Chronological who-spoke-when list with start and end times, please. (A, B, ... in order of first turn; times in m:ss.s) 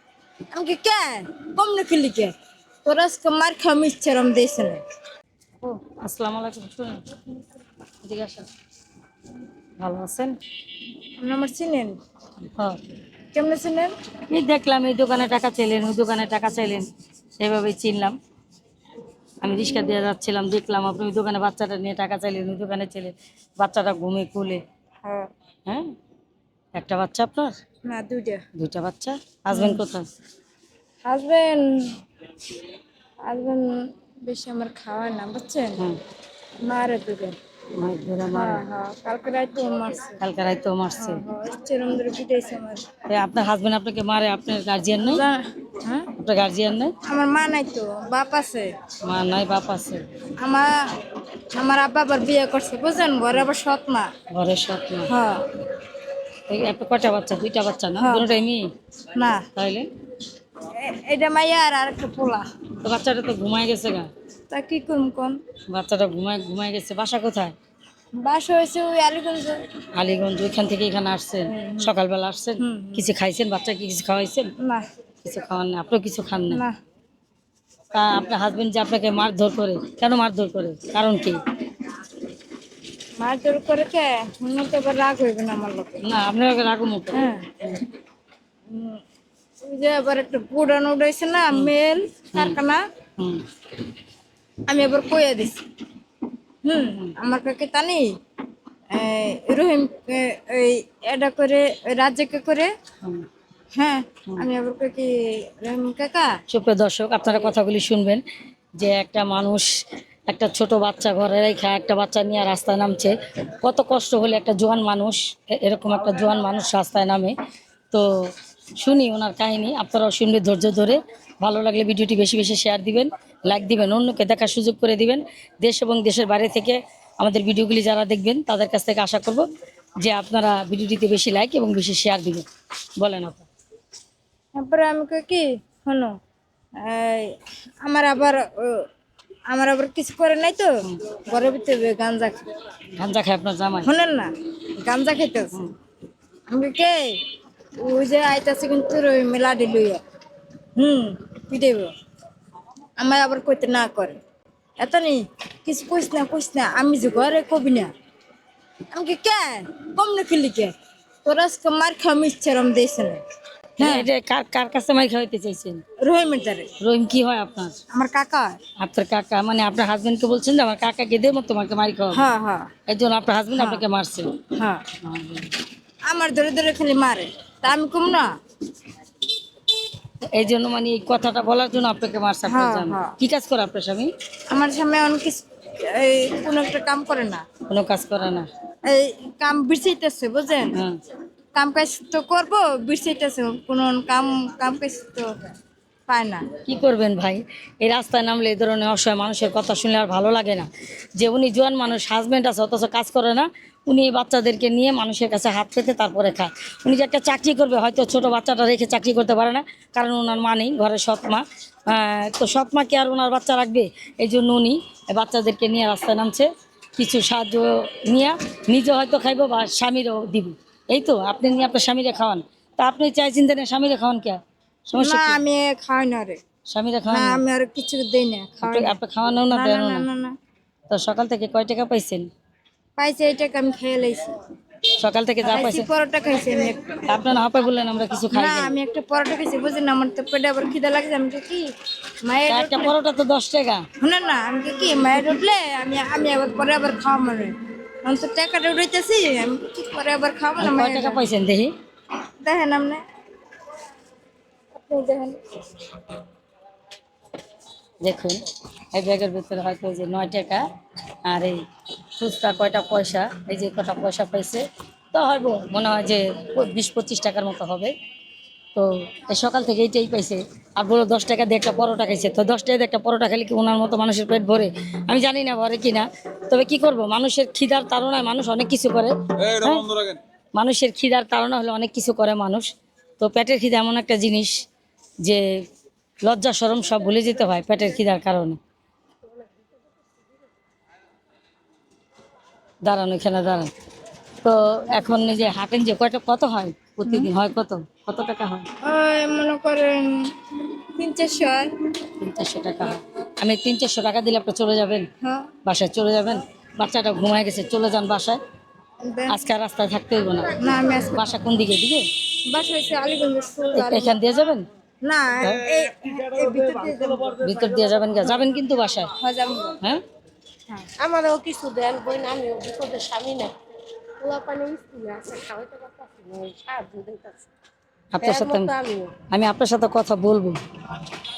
0:00.5-0:02.3 A
0:02.8-0:04.8 A
0:05.6-0:07.0 B
0:08.0-0:08.5 B
0:09.8-0:10.4 B
0:11.2-0:12.0 A
0:13.3-0:13.9 A
0:14.3-0:16.9 B
0:17.4-0:18.2 B
0:19.4-0:24.6 B
0:26.8-0:27.6 B
0:27.9-0:28.4 A
0:28.5-0:30.1 B
0:29.5-0:29.8 A
0:31.0-0:32.0 A
0:33.3-0:35.8 A
0:36.6-0:37.4 A
0:37.8-0:38.6 B
0:38.3-0:40.2 A
0:40.2-0:41.2 B
0:41.0-0:42.8 A
0:43.1-0:45.2 B
0:45.0-0:46.1 A
0:46.2-0:46.9 B
0:47.0-0:48.7 A
0:49.0-0:50.0 B
0:50.4-0:50.8 A
0:51.6-0:54.1 A
0:54.3-0:55.1 B
0:55.1-0:55.5 A
0:56.5-0:58.7 B
0:58.0-0:58.3 A
0:59.1-0:59.4 A
0:59.6-0:59.9 B
1:00.7-1:02.4 A
1:02.8-1:04.1 B
1:04.5-1:05.4 A
1:05.7-1:07.5 B
1:08.2-1:09.6 A
1:09.9-1:14.5 B
1:11.5-1:11.9 A
1:12.6-1:13.1 A
1:15.2-1:16.6 B
1:17.9-1:21.4 B
1:23.2-1:26.0 A
1:26.0-1:27.7 B
1:27.1-1:27.6 A
1:28.7-1:29.0 A
1:29.6-1:32.8 A
1:33.2-1:33.4 B
1:34.7-1:35.6 A
1:36.6-1:38.1 A
1:36.8-1:37.1 B
1:38.9-1:42.7 A
1:43.8-1:46.3 A
1:46.5-1:48.2 B
1:48.8-1:49.7 B
1:50.3-1:57.3 B
1:57.9-2:09.4 B
2:10.0-2:12.4 B
2:13.0-2:13.4 B
2:14.6-2:16.2 A
2:16.8-2:18.9 A
2:19.5-2:22.4 A
2:23.0-2:23.9 B
2:23.8-2:25.6 A
2:26.5-2:27.2 A
2:27.8-2:30.0 A
2:30.8-2:31.9 A
2:33.0-2:34.2 A
2:34.8-2:37.9 A
2:38.9-2:40.7 A
2:41.2-2:43.2 A
2:43.8-2:44.1 A
2:43.8-2:45.8 B
2:46.0-2:46.7 A
2:46.8-2:47.8 B
2:47.9-2:48.6 A
2:48.8-2:52.2 B
2:52.1-2:52.7 A
2:52.9-2:54.3 B
2:53.5-2:53.8 A
2:54.6-2:54.8 A
2:55.0-2:55.5 B
2:56.1-2:58.3 A
3:00.3-3:04.1 B
3:02.4-3:03.2 A
3:04.5-3:07.4 A
3:07.7-3:08.5 B
3:08.8-3:10.8 A
3:11.5-3:15.3 A
3:16.1-3:16.4 A
3:16.7-3:45.4 B
3:45.0-3:46.4 A
3:46.7-3:47.4 B
3:47.1-3:49.0 A
3:48.6-3:50.1 B
3:49.5-3:50.3 A
3:50.9-3:52.3 B
3:53.0-3:54.3 A
3:55.0-3:55.9 B
3:55.4-3:57.1 A
3:57.0-3:58.7 B
3:58.3-4:01.7 A
4:02.2-4:02.9 A
4:02.5-4:03.8 B
4:04.0-4:11.2 A
4:10.6-4:11.7 B
4:12.4-4:13.0 A
4:14.8-4:15.4 A
4:18.0-4:18.4 B
4:18.9-4:20.6 B
4:21.2-4:21.6 B
4:22.2-4:27.9 B
4:28.7-4:42.7 B
4:43.2-4:44.5 B
4:46.2-4:48.6 B
4:52.8-4:53.7 B
4:54.4-4:58.7 B
4:58.8-5:00.3 A
5:01.0-5:01.7 A
5:02.2-5:05.1 B
5:05.2-5:05.5 A
5:05.6-5:08.4 B
5:09.0-5:09.4 A
5:09.3-5:12.0 B
5:10.6-5:11.3 A
5:12.5-5:14.2 A
5:13.8-5:14.6 B
5:15.0-5:17.5 A
5:17.4-5:19.1 B
5:19.2-5:19.8 A
5:21.0-5:23.6 C
5:24.2-5:27.5 C
5:28.1-5:28.8 B
5:28.2-5:29.2 C
5:29.3-5:31.1 B